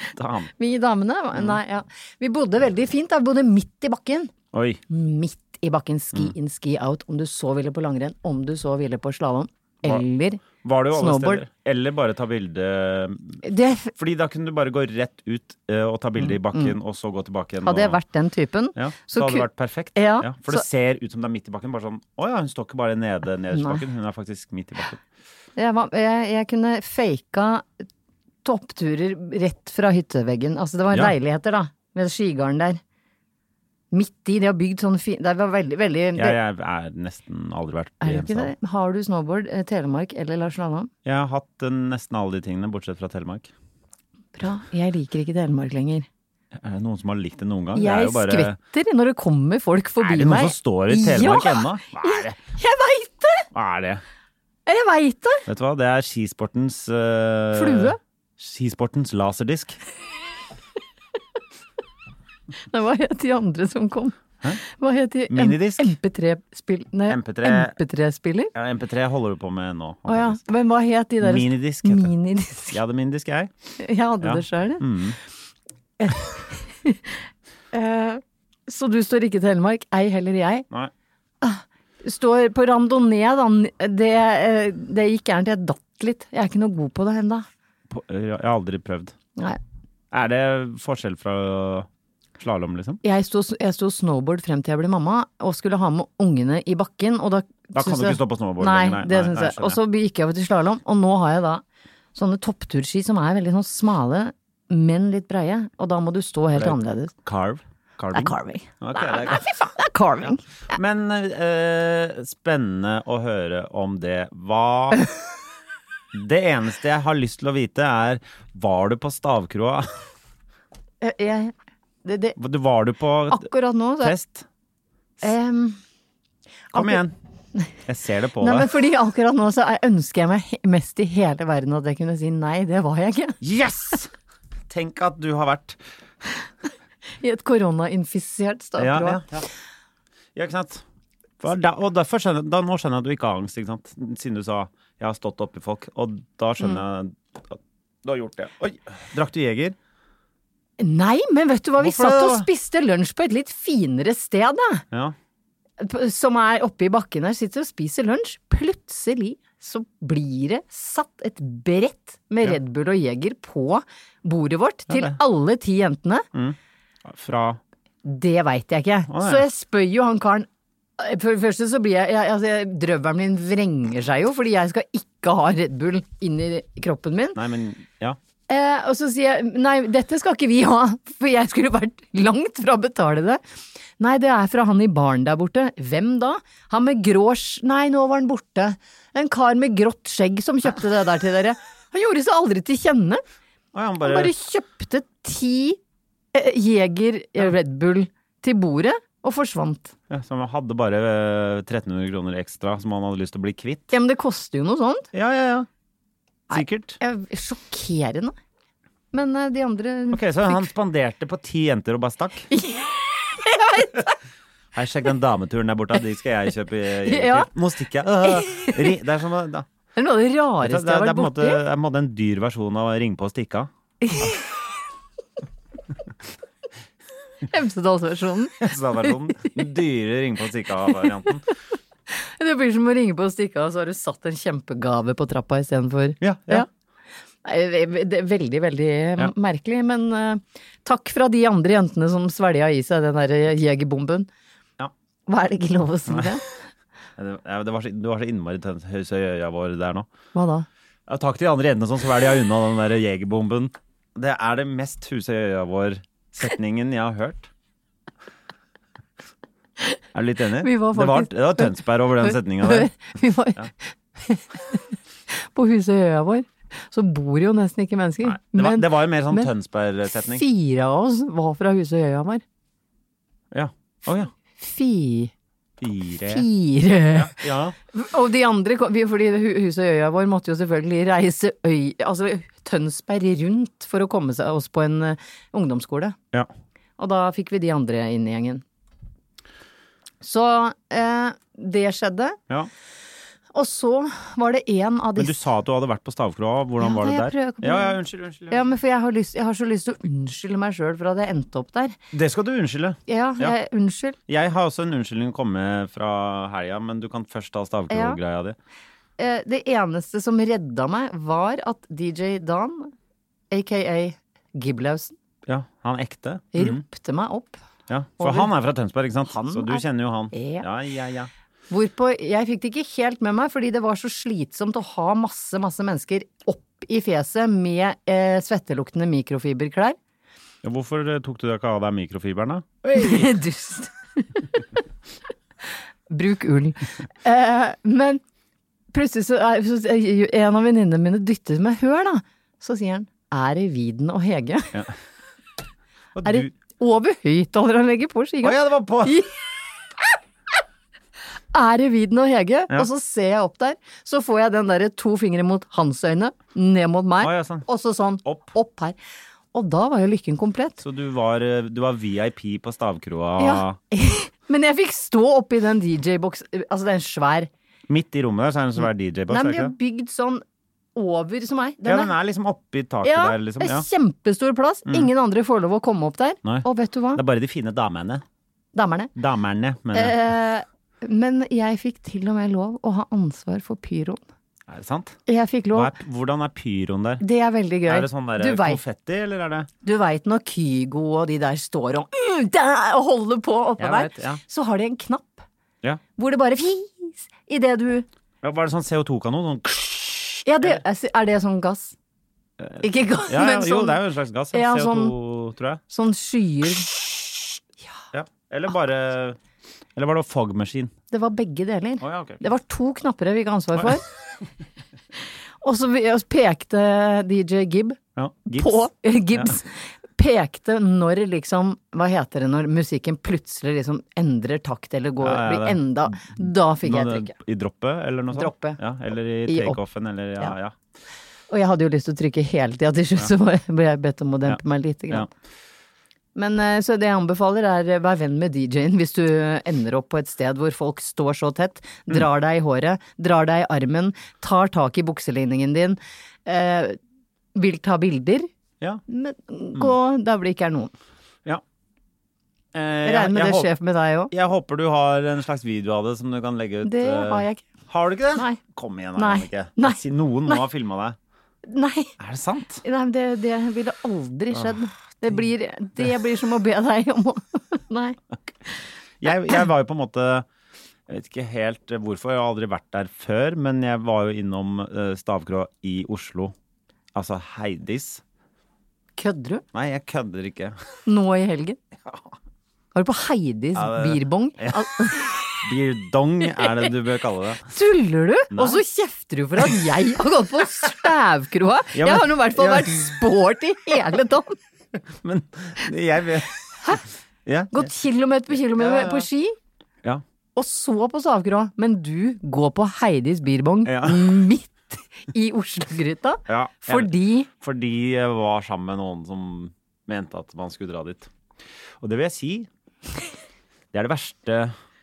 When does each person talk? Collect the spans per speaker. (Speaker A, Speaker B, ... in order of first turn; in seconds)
Speaker A: 0.1-0.5, 4.5-4.8, 10.6-13.4, 13.9-18.0, 18.8-25.0, 36.1-38.5, 41.0-43.5, 46.5-48.6, 50.0-52.4, 53.5-54.0, 55.5-59.8, 65.3-65.9, 67.1-67.8, 68.5-70.4, 71.2-72.1, 72.7-73.5, 74.2-75.2, 87.9-89.1, 90.1-91.9, 92.4-93.0, 97.7-99.8, 106.5-109.5, 110.7-115.0, 116.1-120.0, 122.4-123.5, 124.0-124.5, 126.7-127.1, 127.8-128.7, 133.4-134.1, 134.7-135.8, 138.8-139.5, 140.3-140.8, 141.4-149.8, 151.8-152.5, 164.9-165.2, 166.3-167.6, 169.1-169.4, 177.3-178.2, 193.7-194.3, 200.1-203.9, 205.1-205.7, 206.5-207.0, 210.1-212.5, 214.7-219.7, 220.6-223.7, 228.6-231.4, 236.2-236.7, 246.1-246.4, 247.2-250.1, 251.1-257.5, 260.1-262.9, 268.2-270.4, 273.5-274.3, 275.8-276.4, 277.1-277.8, 295.2-298.6, 302.1-303.5, 304.3-308.6, 315.4-316.8, 317.9-321.3, 330.6-333.3, 346.1-346.5, 348.4-349.2, 357.2-357.7, 358.2-358.5, 360.8-363.8, 367.9-369.7, 371.8-373.9, 376.4-378.2, 379.1-380.2, 384.7-387.2, 387.8-389.7, 393.8-394.4, 398.4-400.8, 402.6-405.8, 408.1-409.4, 409.9-410.9, 412.0-412.4, 418.1-419.6, 425.2-430.7, 434.4-435.3, 452.7-453.7, 454.3-461.2, 462.2-462.8, 469.2-470.4, 471.1-476.5, 477.1-478.2, 479.7-480.8, 483.7-487.7, 488.5-488.8, 491.9-493.2, 495.2-496.6, 497.4-497.9, 498.6-499.3, 503.8-504.4, 506.5-511.3, 512.0-512.7, 513.9-514.7
Speaker B: 0.6-4.3, 4.9-11.4, 13.4-13.9, 16.2-16.7, 17.6-20.6, 23.5-23.8, 25.6-27.8, 28.4-32.8, 33.9-36.4, 38.0-40.9, 44.4-46.1, 47.7-53.5, 54.6-55.5, 57.5-58.0, 62.7-68.5, 70.1-72.8, 73.8-74.8, 76.0-77.2, 77.7-80.7, 81.4-87.5, 93.0-101.6, 102.1-107.1, 108.1-110.4, 121.0-121.5, 122.0-122.4, 123.3-124.1, 125.2-125.8, 126.7-127.0, 128.4-133.4, 137.2-139.2, 150.8-154.8, 155.8-166.2, 168.0-170.5, 171.0-177.4, 178.5-183.4, 184.0-193.2, 194.0-195.8, 196.3-199.9, 203.9-205.1, 206.5-208.3, 209.1-210.7, 212.5-214.1, 217.0-217.5, 218.4-218.9, 219.9-221.6, 224.0-224.4, 227.4-229.1, 232.1-236.7, 237.4-244.3, 245.3-246.4, 250.3-250.7, 260.6-269.5, 270.3-272.4, 274.6-275.3, 276.3-277.4, 277.9-286.1, 287.0-288.6, 290.2-292.4, 293.5-295.4, 296.8-301.9, 303.1-304.2, 307.9-308.2, 309.2-312.9, 313.5-315.2, 316.5-317.6, 318.2-318.5, 319.3-320.6, 321.7-330.0, 332.9-334.6, 336.1-338.2, 338.9-344.8, 346.2-349.3, 351.5-359.0, 359.5-360.8, 363.4-367.5, 369.3-370.4, 370.9-372.1, 373.0-377.2, 378.7-379.1, 379.9-384.2, 385.3-385.9, 387.2-388.8, 389.8-395.4, 396.2-398.1, 400.4-401.9, 402.8-404.0, 404.5-405.1, 405.9-407.0, 411.1-414.0, 415.6-427.3, 428.3-428.8, 429.4-429.8, 431.5-435.3, 436.3-447.0, 447.5-448.5, 449.1-450.9, 453.0-454.3, 456.8-457.6, 459.1-460.6, 461.6-462.1, 462.8-468.2, 479.2-479.6, 481.1-481.8, 482.9-485.5, 487.7-494.6, 497.7-499.6, 500.5-507.5